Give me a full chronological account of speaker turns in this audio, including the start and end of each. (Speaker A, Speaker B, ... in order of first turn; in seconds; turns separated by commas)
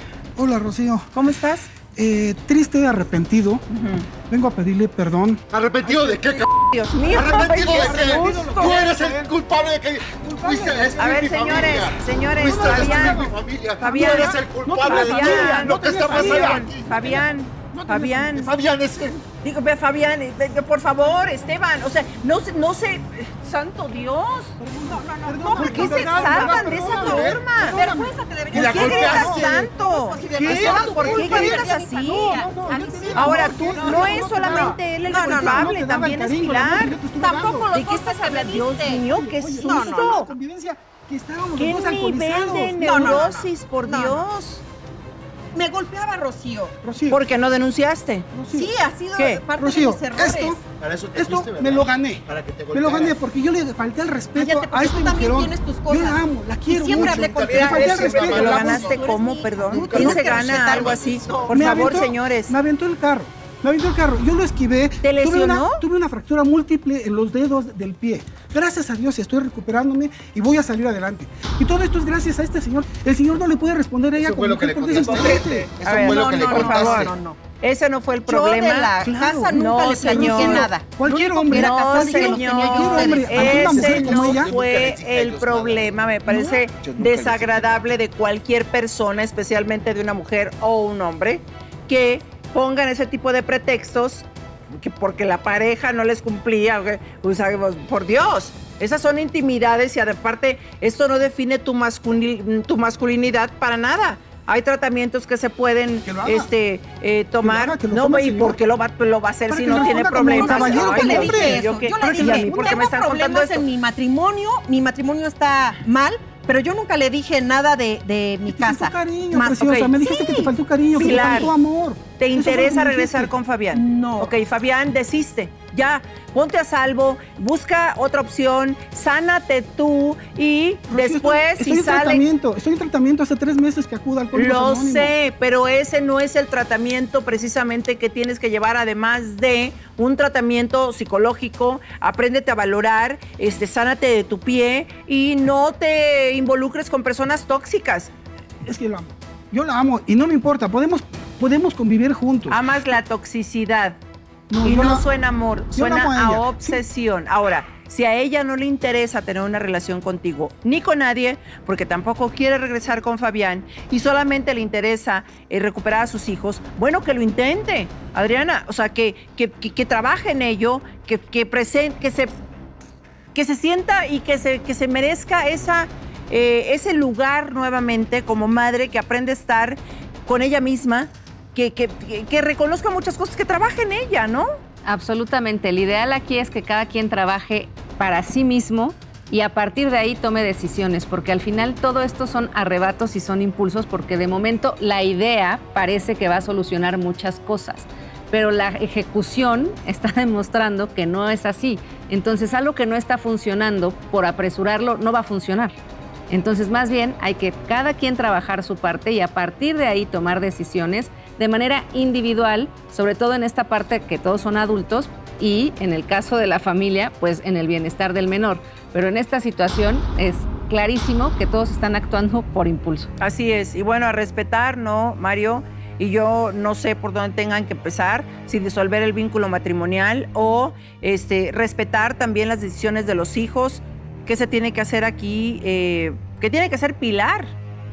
Speaker A: 0.3-1.1, Speaker B: 1.1-1.7, Speaker A: 1.9-3.6, Speaker B: 3.7-4.1, Speaker A: 4.2-6.4, Speaker C: 5.5-17.2, Speaker B: 6.7-8.8, Speaker A: 7.2-9.3, Speaker A: 10.1-11.6, Speaker B: 11.0-18.5, Speaker A: 12.4-13.3, Speaker A: 13.9-18.5, Speaker C: 18.4-19.2, Speaker B: 19.4-24.6, Speaker A: 24.6-29.7, Speaker D: 24.8-35.8, Speaker B: 25.6-27.8, Speaker C: 28.5-29.5, Speaker B: 28.5-32.4, Speaker A: 30.2-37.7, Speaker B: 33.1-37.0, Speaker D: 37.2-40.2, Speaker B: 37.7-40.3, Speaker A: 38.9-43.3, Speaker B: 41.5-44.6, Speaker D: 42.8-44.2, Speaker D: 45.5-46.8, Speaker A: 46.8-47.2, Speaker B: 47.1-48.3, Speaker A: 48.3-48.7, Speaker D: 48.5-50.6, Speaker B: 49.2-49.4, Speaker A: 49.6-50.6, Speaker C: 50.7-53.1, Speaker A: 51.1-58.9, Speaker D: 54.3-61.7, Speaker C: 56.7-62.0, Speaker B: 58.1-62.5, Speaker A: 61.5-75.7, Speaker B: 65.0-65.8, Speaker C: 74.2-77.1, Speaker B: 75.8-113.7, Speaker D: 76.0-77.4, Speaker D: 78.2-84.3, Speaker A: 79.0-84.5, Speaker C: 83.7-87.9, Speaker D: 86.3-86.6, Speaker A: 106.0-106.5, Speaker A: 107.4-108.6, Speaker A: 109.5-112.9, Speaker D: 109.7-121.5, Speaker A: 118.5-123.3, Speaker B: 120.9-121.5, Speaker B: 122.2-132.2, Speaker D: 123.7-124.3, Speaker A: 130.9-135.1, Speaker B: 134.3-148.1, Speaker A: 148.6-152.6, Speaker B: 152.5-154.0, Speaker A: 154.5-155.0, Speaker B: 154.6-172.3, Speaker A: 155.7-156.8, Speaker B: 173.3-184.5, Speaker E: 184.8-205.8, Speaker E: 206.3-223.1, Speaker B: 223.2-237.5